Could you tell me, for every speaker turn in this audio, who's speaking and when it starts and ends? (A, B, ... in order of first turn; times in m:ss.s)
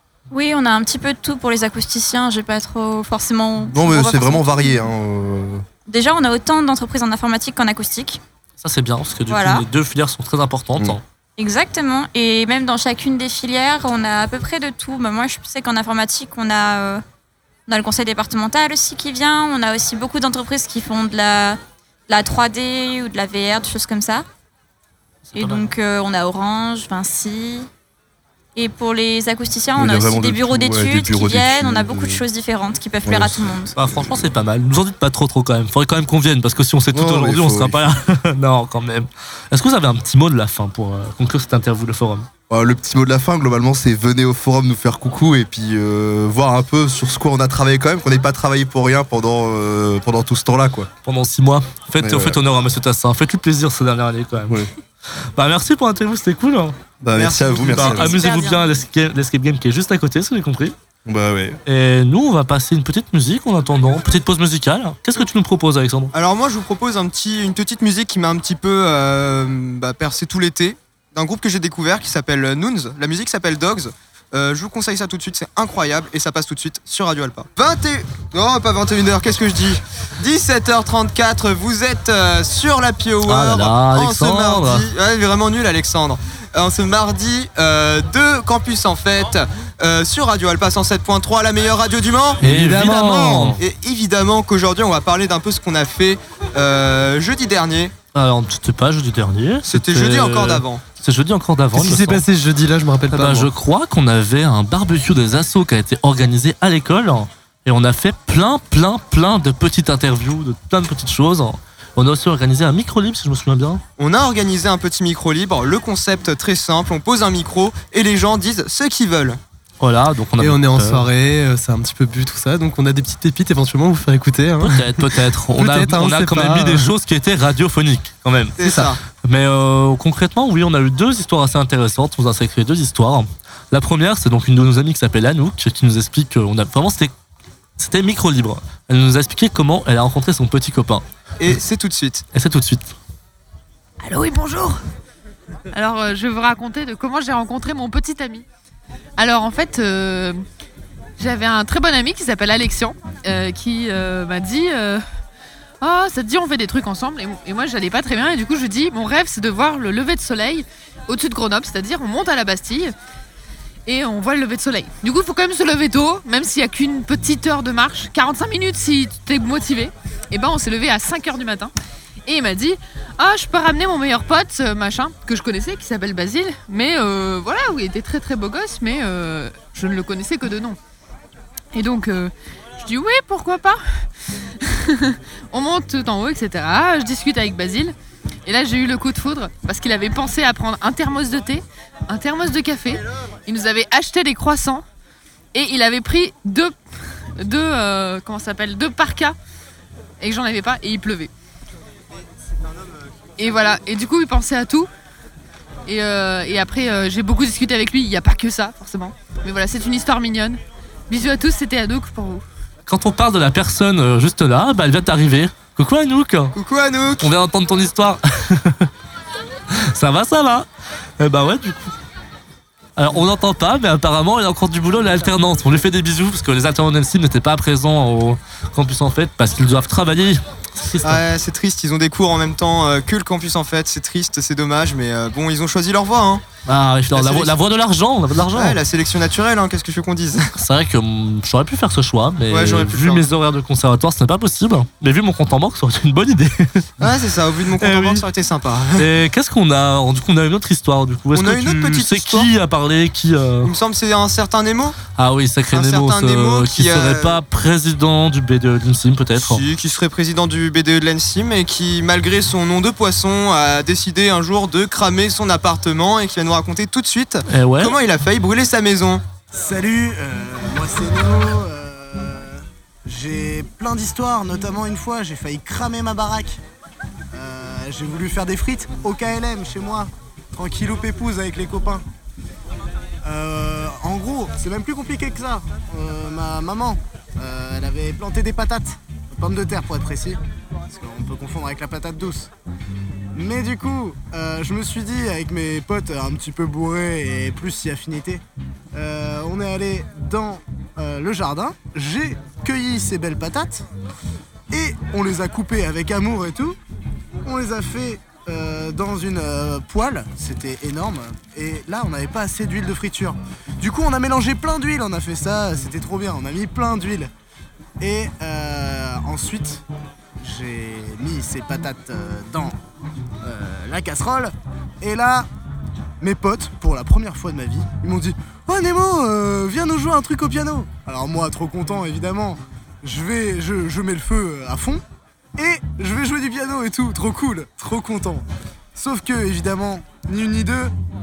0:00.3-0:04.9 A
0:03.7-0:05.6 B
0:05.9-0:08.2 A
0:08.6-0:11.0 C
0:09.3-0:09.6 A
0:11.4-0:17.0 A
0:17.7-0:24.2 A
0:25.2-0:25.6 C
0:25.4-0:27.7 A
0:28.6-0:33.8 A
0:29.8-0:32.2 B
0:33.0-0:33.6 B
0:33.8-0:42.3 C
0:36.9-0:37.8 B
0:42.5-0:50.9 B
0:51.0-0:54.6 C
0:52.0-0:52.4 B
0:55.4-0:56.8 C
0:57.0-0:58.2 B
0:57.2-0:58.0 D
0:57.7-1:00.8 C
0:57.8-0:58.6 A
1:01.1-1:01.6 B
1:01.7-1:06.1 C
1:06.1-1:37.9 D
1:23.3-1:24.9 C
1:32.4-1:33.6 C
1:32.4-1:33.6 E
1:38.1-1:42.2 C
1:39.7-1:40.8 D
1:41.7-1:43.5 E
1:43.1-1:53.8 C
1:54.0-1:59.4 D
1:59.8-2:01.0 C
2:00.4-2:06.9 E
2:04.6-2:08.7 C
2:08.6-2:09.0 D
2:09.2-2:17.1 C
2:17.8-2:21.0 C
2:21.4-2:22.2 D
2:22.3-2:22.9 C
2:24.0-2:24.8 F
2:25.7-2:28.4 F
2:29.2-2:30.4 F
2:31.2-2:35.0 F
2:35.8-2:42.9 F
2:43.9-2:51.7 F
2:52.3-3:00.8 F
3:01.7-3:04.0 F
3:04.6-3:07.9 F
3:08.5-3:14.8 F
3:15.5-3:16.8 F
3:17.4-3:19.4 F
3:20.2-3:21.3 F
3:23.4-3:24.9 F
3:25.9-3:32.4 F
3:32.9-3:36.6 C
3:36.6-3:37.3 D
3:37.2-3:38.9 C
3:39.7-3:40.7 C
3:41.2-3:41.9 C
3:43.0-3:51.2 C
3:51.0-3:56.4 D
3:56.7-3:58.8 C
3:57.1-3:57.5 D
3:58.5-4:00.5 D
4:00.6-4:06.9 C
4:02.5-4:03.3 D
4:07.0-4:09.0 D
4:07.8-4:08.2 C
4:09.0-4:13.7 C
4:11.3-4:12.5 D
4:13.6-4:15.0 D
4:15.2-4:19.6 C
4:15.7-4:17.4 D
4:19.4-4:29.2 D
4:27.5-4:28.0 C
4:29.5-4:36.6 G
4:37.3-4:42.0 G
4:43.2-4:52.5 G
4:53.3-4:58.4 G
4:58.9-5:03.9 G
5:04.7-5:06.8 G
5:07.4-5:17.3 G
5:18.0-5:19.8 G
5:20.4-5:22.8 G
5:23.4-5:25.5 G
5:26.2-5:35.0 G
5:35.6-5:40.9 G